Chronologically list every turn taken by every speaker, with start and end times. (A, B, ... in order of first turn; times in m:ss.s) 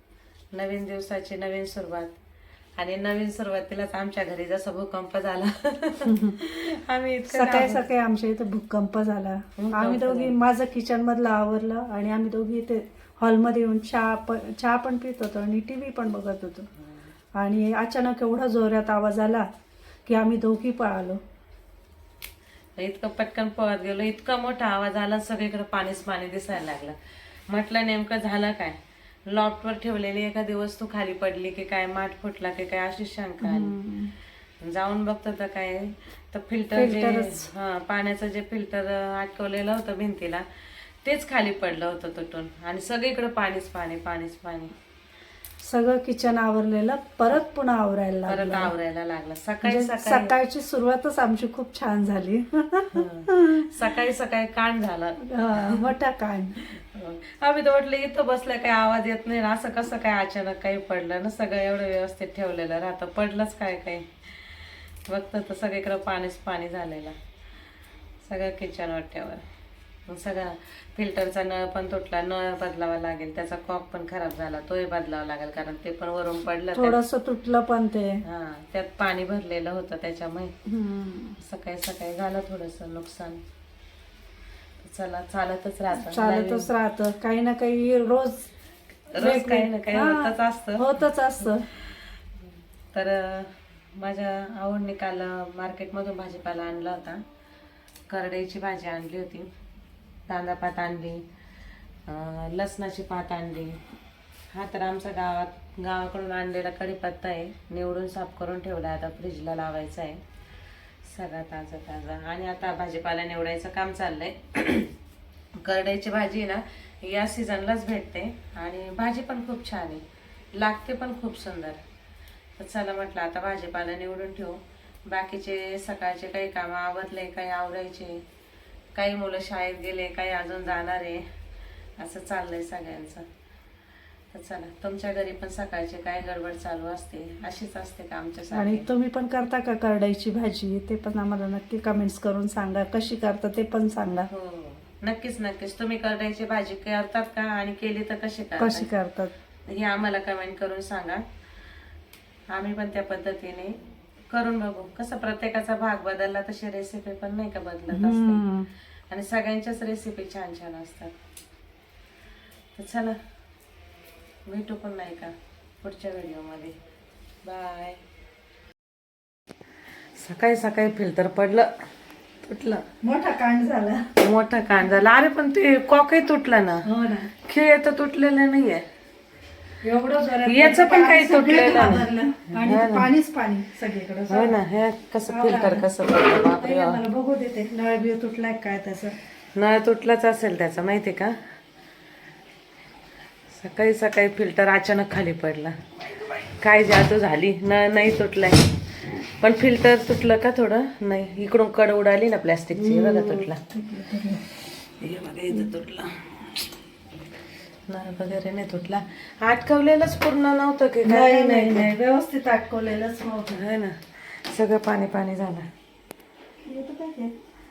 0:00.5-0:02.1 A
0:02.8-0:07.8 A
0:06.0-0:06.4 B
0:07.3-0:16.7 B
0:09.6-0:10.3 A
0:17.3-0:19.5 B
0:20.0-0:21.2 B
0:22.8-0:26.9 A
0:27.5-0:33.7 A
0:33.4-0:34.1 B
0:34.6-0:44.7 A
0:36.7-0:37.5 B
0:45.6-0:48.7 B
0:48.3-0:50.3 A
0:49.6-0:53.8 B
0:52.9-0:55.8 A
0:55.2-0:56.6 B
0:56.6-1:07.1 A
1:08.2-1:09.4 A
1:10.1-1:17.0 A
1:16.7-1:18.2 B
1:18.2-1:20.5 A
1:20.6-1:21.4 B
1:21.4-1:23.4 A
1:24.8-1:26.7 A
1:25.9-1:28.5 B
1:29.1-1:32.1 A
1:29.2-1:31.7 B
1:32.9-1:37.2 A
1:38.1-1:39.5 A
1:40.3-1:41.2 A
1:42.0-1:43.8 A
1:44.5-1:50.2 A
1:51.0-1:54.9 A
1:55.6-2:00.0 A
2:00.5-2:01.8 A
2:02.6-2:08.2 A
2:08.9-2:11.2 A
2:12.0-2:13.2 A
2:14.3-2:18.8 A
2:18.5-2:24.3 B
2:24.3-2:28.9 A
2:28.6-2:29.3 B
2:29.7-2:31.2 A
2:32.5-2:33.8 A
2:34.3-2:38.4 A
2:37.9-2:38.7 B
2:39.1-2:41.1 A
2:42.8-2:43.2 A
2:44.4-2:46.7 A
2:47.4-2:48.0 A
2:50.2-2:51.7 A
2:52.4-2:52.8 A
2:53.0-2:54.0 B
2:54.2-2:58.8 A
2:56.8-2:57.3 B
2:59.8-3:04.6 B
3:00.4-3:03.1 A
3:04.3-3:07.0 A
3:05.3-3:05.9 B
3:06.4-3:09.2 B
3:09.6-3:11.4 A
3:13.5-3:15.7 A
3:16.6-3:18.7 A
3:19.4-3:23.6 A
3:22.8-3:24.4 B
3:25.0-3:26.4 A
3:27.9-3:31.9 A
3:31.0-3:33.6 B
3:33.5-3:35.7 A
3:36.6-3:37.3 B